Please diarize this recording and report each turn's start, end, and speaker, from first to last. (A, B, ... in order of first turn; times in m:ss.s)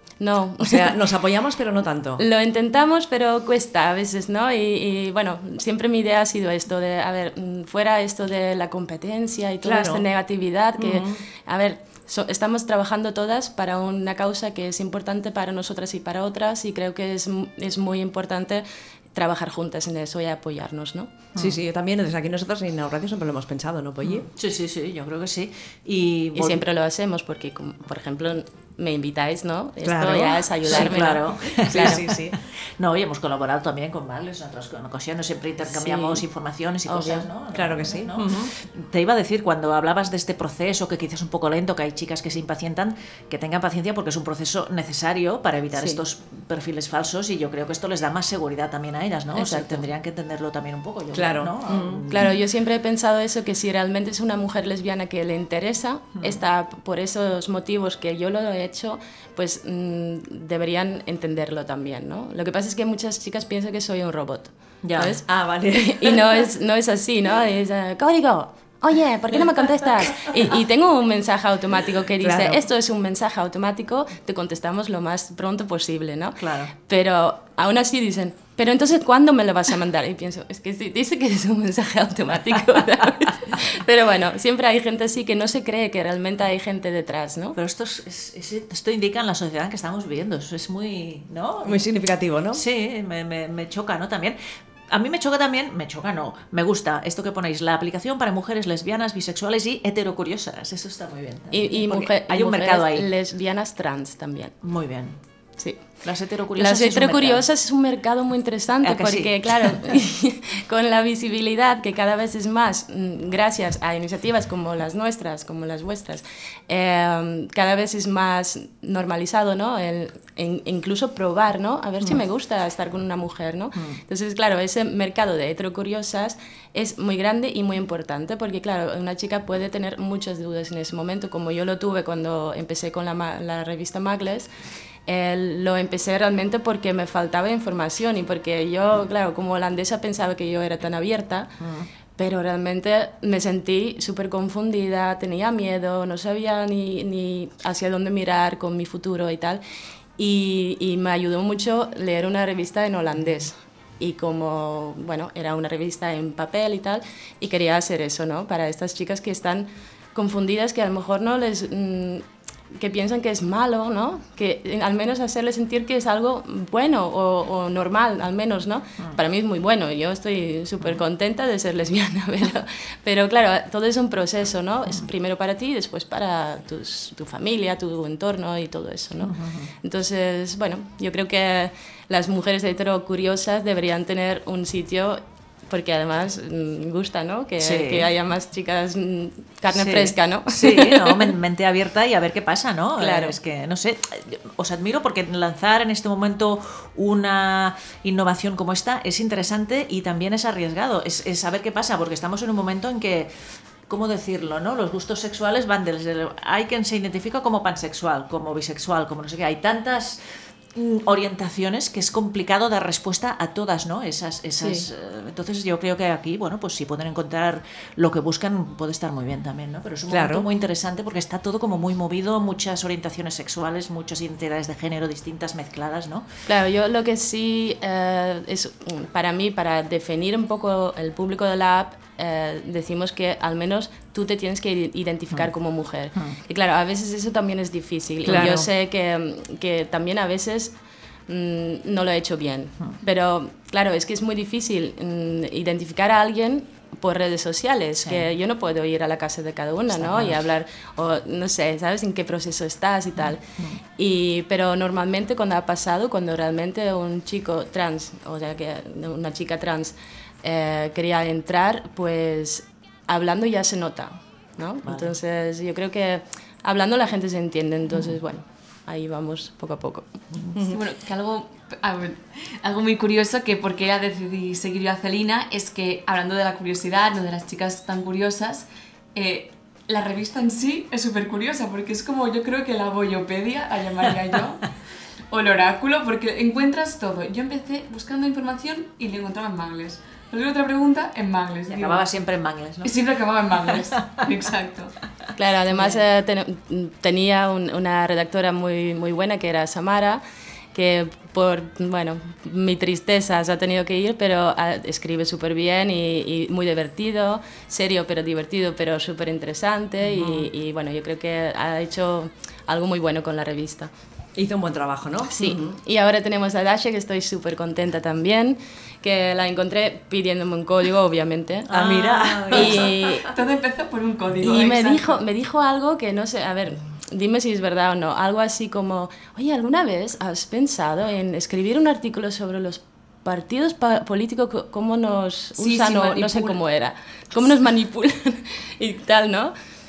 0:00.2-0:01.0 A
0:00.6-0:02.2 B
0:02.2-0:21.1 A
0:09.6-0:10.0 B
0:10.8-0:11.2 B
0:21.3-0:21.6 C
0:21.4-0:24.3 B
0:24.0-0:26.6 C
0:26.3-0:32.0 A
0:29.8-0:32.4 B
0:30.6-0:52.3 C
0:35.7-0:36.2 A
0:36.9-0:37.3 A
0:37.5-0:38.5 B
0:49.3-0:49.8 A
0:51.1-0:52.0 B
0:52.1-1:27.6 A
1:04.8-1:05.2 C
1:05.2-1:06.4 B
1:12.2-1:12.6 B
1:16.4-1:16.7 C
1:27.6-1:31.8 C
1:31.6-1:32.6 B
1:32.5-1:34.4 C
1:34.9-1:43.1 C
1:41.5-1:44.5 A
1:44.6-1:45.2 C
1:46.0-1:47.4 C
1:46.6-2:14.5 A
1:48.8-1:49.9 C
2:15.1-2:21.6 A
2:21.6-2:21.9 C
2:22.2-2:29.6 A
2:30.2-3:11.3 A
2:59.2-2:59.7 C
3:07.6-3:08.1 C
3:09.7-3:23.3 C
3:13.0-3:13.4 A
3:23.9-3:30.2 C
3:30.8-3:46.3 C
3:34.6-3:34.8 A
3:40.1-3:40.5 B
3:46.5-4:00.7 A
3:58.2-3:58.7 B
3:58.3-3:58.6 C
4:01.3-4:13.4 A
4:09.9-4:10.4 C
4:14.0-4:30.1 A
4:30.6-4:30.8 B
4:30.6-4:44.7 D
4:45.3-4:52.1 D
4:51.7-4:53.0 C
4:52.8-4:54.9 D
4:55.4-5:00.2 A
5:00.7-5:13.9 A
5:10.1-5:10.5 B
5:14.3-5:15.8 B
5:15.3-5:21.7 A
5:21.7-5:22.9 C
5:21.7-5:23.1 B
5:22.5-5:23.3 A
5:23.2-5:25.2 D
5:24.4-5:39.5 A
5:35.6-5:36.6 D